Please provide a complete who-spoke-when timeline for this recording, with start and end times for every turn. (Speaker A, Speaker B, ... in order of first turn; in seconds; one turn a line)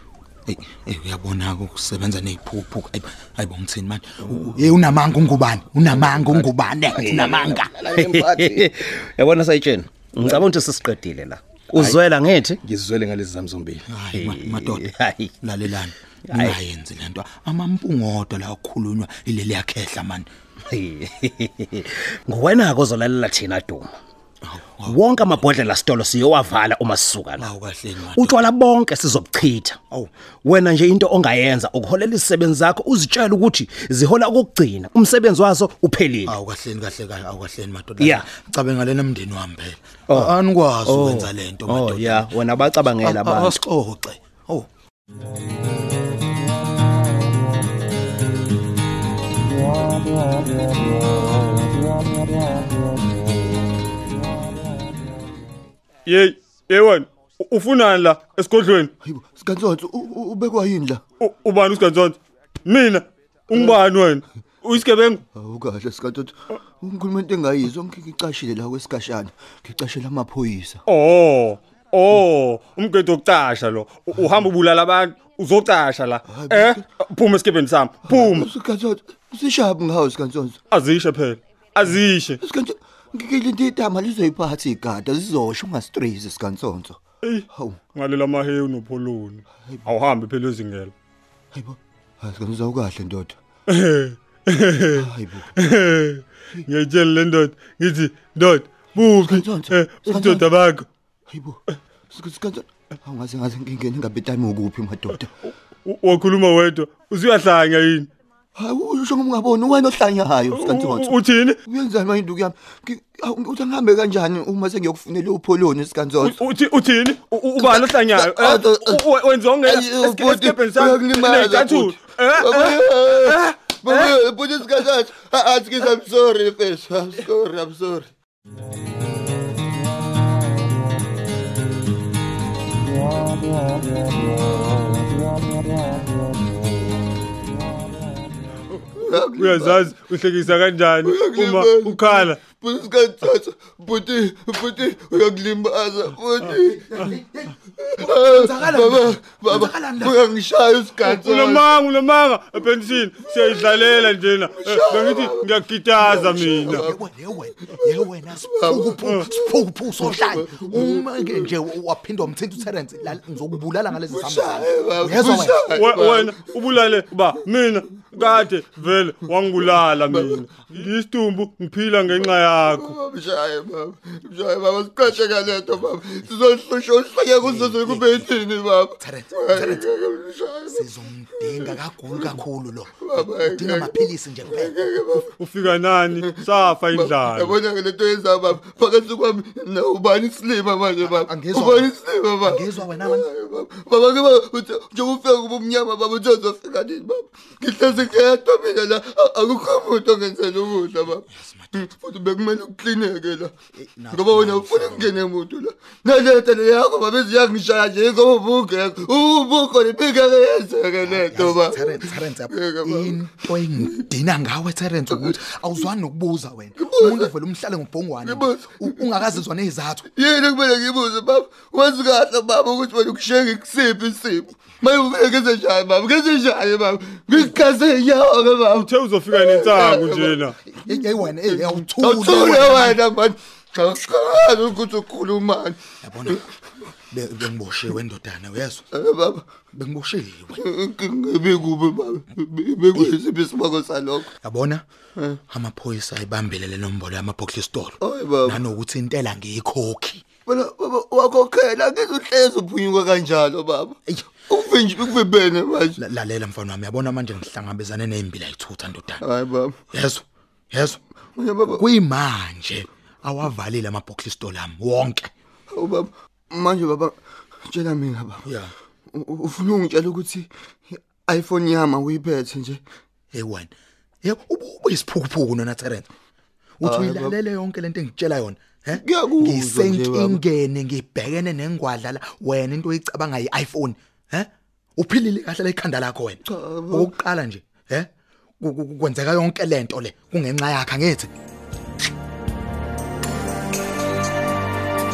Speaker A: 0.5-7.7
Speaker B: 5.8-8.7
Speaker C: 7.9-12.6
Speaker B: 11.7-12.0
Speaker B: 12.6-13.8
Speaker A: 13.9-20.3
Speaker C: 14.1-15.3
Speaker C: 16.3-16.6
Speaker C: 20.7-23.9
Speaker A: 24.4-25.0
Speaker C: 24.8-27.5
Speaker A: 27.4-28.4
Speaker C: 28.0-29.8
Speaker C: 30.4-36.4
Speaker A: 36.2-42.3
Speaker C: 38.0-38.3
Speaker C: 40.1-43.6
Speaker A: 43.0-44.7
Speaker D: 56.0-58.9
Speaker E: 59.0-61.0
Speaker D: 61.2-65.2
Speaker E: 63.5-63.8
Speaker E: 65.3-70.8
Speaker D: 70.8-78.5
Speaker E: 76.2-76.8
Speaker E: 78.0-80.6
Speaker D: 80.7-82.4
Speaker E: 81.9-87.0
Speaker D: 87.2-90.9
Speaker E: 87.5-87.8
Speaker E: 91.5-93.3
Speaker D: 93.7-100.9
Speaker E: 94.9-95.5
Speaker E: 99.0-100.5
Speaker E: 101.3-101.6
Speaker E: 102.1-105.3
Speaker D: 105.8-108.1
Speaker E: 108.5-111.1
Speaker D: 110.5-111.6
Speaker E: 111.7-116.4
Speaker D: 116.2-124.2
Speaker E: 117.5-119.0
Speaker E: 119.6-128.1
Speaker E: 139.0-139.9
Speaker D: 139.1-142.4
Speaker E: 141.0-147.2
Speaker D: 146.4-147.1
Speaker E: 148.0-151.8
Speaker A: 148.0-150.2
Speaker D: 151.0-156.9
Speaker E: 152.9-156.9
Speaker A: 156.2-165.7
Speaker E: 157.6-159.4
Speaker E: 160.0-161.5
Speaker E: 164.1-166.4
Speaker D: 165.7-172.9
Speaker E: 169.6-170.4
Speaker E: 172.2-180.8
Speaker A: 177.4-178.3
Speaker A: 179.0-179.8
Speaker A: 180.7-184.8
Speaker E: 181.4-182.3
Speaker E: 183.0-203.5
Speaker D: 185.4-187.6
Speaker A: 191.0-193.3
Speaker A: 201.3-201.9
Speaker A: 203.8-205.1
Speaker E: 204.1-213.2
Speaker A: 211.0-220.1
Speaker E: 216.8-217.3
Speaker E: 218.2-219.0
Speaker E: 220.1-230.4
Speaker D: 228.7-230.6
Speaker A: 230.7-233.0
Speaker E: 231.5-235.8
Speaker A: 236.0-236.4
Speaker A: 237.1-238.8
Speaker E: 238.9-239.4
Speaker A: 239.7-240.6
Speaker E: 240.5-244.3
Speaker A: 244.4-244.8
Speaker A: 245.5-250.2
Speaker E: 248.0-248.6
Speaker E: 250.4-256.0
Speaker A: 255.9-259.2
Speaker E: 259.2-259.8
Speaker A: 259.9-261.0
Speaker E: 261.3-261.8
Speaker A: 261.7-265.3
Speaker E: 265.7-268.4
Speaker A: 268.4-268.7
Speaker E: 269.1-272.8
Speaker A: 273.3-273.7
Speaker A: 274.2-276.1
Speaker A: 276.8-288.1
Speaker E: 276.8-277.3
Speaker E: 278.9-280.4
Speaker E: 286.4-287.1
Speaker A: 288.6-291.3